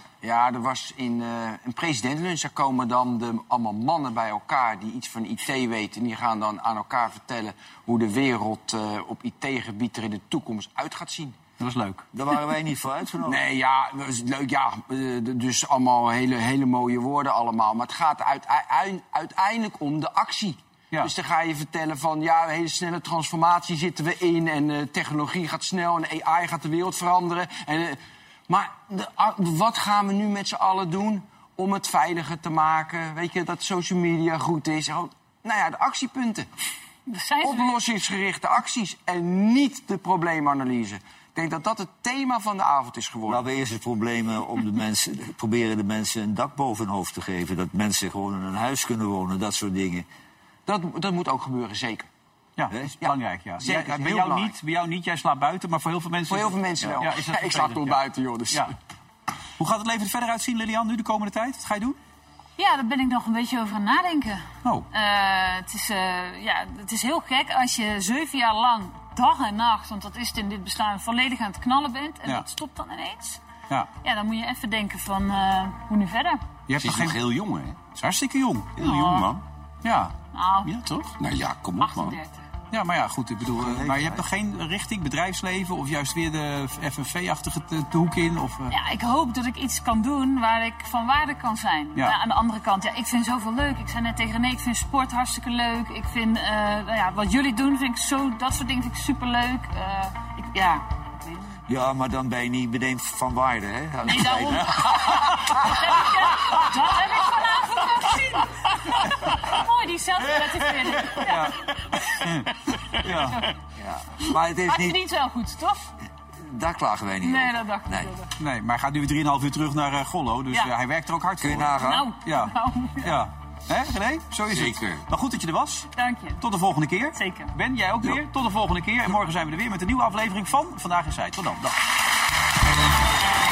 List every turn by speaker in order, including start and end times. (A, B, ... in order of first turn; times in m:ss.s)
0:00.2-0:11.4 A
0:11.6-0:12.0 B
0:12.1-0:13.4 C
0:13.2-0:28.0 A
0:28.5-0:36.5 A
0:37.1-0:37.8 D
0:37.4-0:43.4 A
0:43.3-0:50.1 C
0:50.7-0:52.1 A
0:52.6-0:58.7 B
0:53.0-0:54.6 A
0:56.3-0:58.7 A
0:59.6-1:02.0 B
1:02.6-1:13.4 D
1:14.0-1:16.4 D
1:16.7-1:17.2 B
1:16.8-1:17.8 E
1:17.9-1:18.7 B
1:18.8-1:19.4 E
1:18.8-1:19.3 D
1:19.8-1:20.2 B
1:20.3-1:20.7 D
1:20.7-1:22.2 E
1:21.8-1:22.5 D
1:22.7-1:28.7 B
1:23.5-1:24.2 E
1:28.7-1:41.6 D
1:41.7-1:45.2 C
1:44.0-1:52.3 D
1:51.1-1:51.7 B
1:52.2-1:53.4 B
1:53.8-1:55.0 C
1:54.3-1:55.8 D
1:56.4-1:58.1 C
1:57.2-1:58.3 D
1:58.4-2:11.8 B
2:01.4-2:02.1 C
2:01.8-2:03.1 D
2:04.5-2:05.0 E
2:06.0-2:06.4 D
2:07.2-2:07.5 D